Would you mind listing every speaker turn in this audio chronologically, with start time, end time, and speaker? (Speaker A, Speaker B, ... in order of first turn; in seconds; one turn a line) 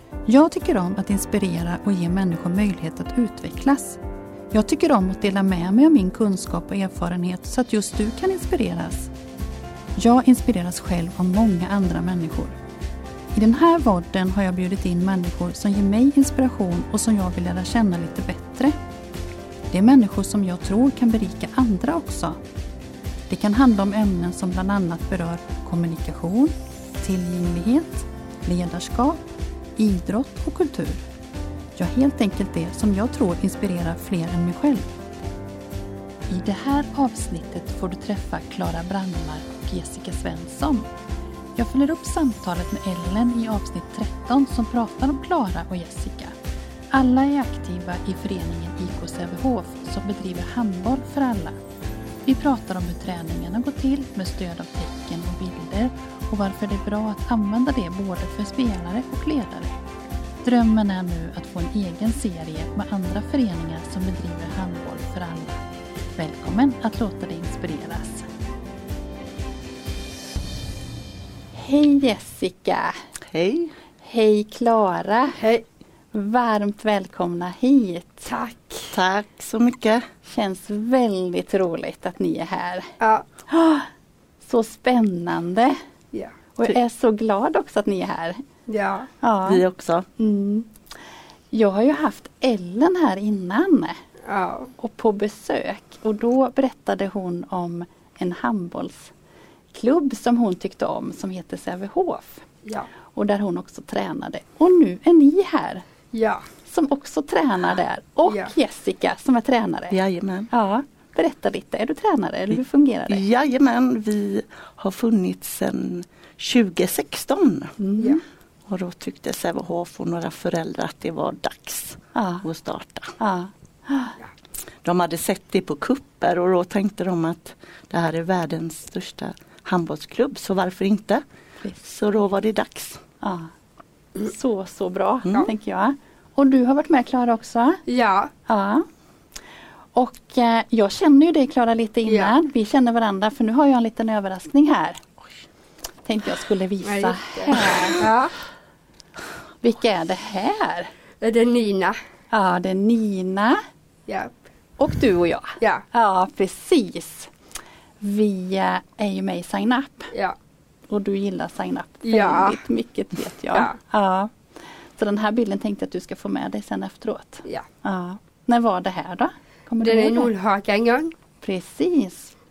Speaker A: 0.2-4.0
Speaker A: 4.5-9.1
Speaker A: 9.9-12.6
Speaker A: 13.3-18.7
Speaker A: 19.7-22.4
Speaker A: 23.3-29.2
Speaker A: 29.8-31.1
Speaker A: 31.8-34.9
Speaker A: 36.3-40.9
Speaker A: 41.5-46.4
Speaker A: 46.9-51.6
Speaker A: 52.2-59.8
Speaker A: 60.4-65.6
Speaker A: 66.1-68.3
Speaker A: 71.5-73.0
Speaker B: 73.3-73.7
Speaker A: 74.0-75.4
Speaker C: 75.4-75.6
Speaker A: 76.1-78.3
Speaker C: 78.3-78.9
Speaker B: 78.9-80.0
Speaker A: 80.2-82.9
Speaker C: 83.0-83.2
Speaker A: 83.5-83.9
Speaker A: 84.5-85.8
Speaker A: 86.5-88.4
Speaker C: 88.7-89.1
Speaker A: 89.2-89.6
Speaker B: 89.4-90.1
Speaker A: 90.2-90.7
Speaker A: 91.5-94.0
Speaker C: 94.3-94.7
Speaker A: 94.8-99.1
Speaker A: 99.7-102.4
Speaker A: 103.1-105.8
Speaker C: 106.1-106.4
Speaker A: 106.7-110.0
Speaker B: 109.9-110.5
Speaker A: 110.5-113.2
Speaker B: 113.1-117.7
Speaker A: 117.8-118.2
Speaker B: 118.7-123.1
Speaker A: 122.1-122.4
Speaker A: 123.2-124.2
Speaker B: 124.8-131.2
Speaker B: 131.8-133.0
Speaker A: 133.2-133.5
Speaker A: 134.2-137.8
Speaker C: 137.9-138.3
Speaker A: 138.4-138.9
Speaker A: 139.9-145.0
Speaker C: 142.1-142.3
Speaker A: 146.0-148.1
Speaker C: 146.8-148.3
Speaker A: 149.6-150.9
Speaker C: 151.2-152.0
Speaker A: 152.3-153.6
Speaker C: 154.1-154.3
Speaker A: 154.8-157.3
Speaker A: 158.0-160.1
Speaker A: 160.9-164.3
Speaker C: 162.0-162.6
Speaker A: 165.0-170.3
Speaker C: 169.8-171.1
Speaker A: 171.4-172.3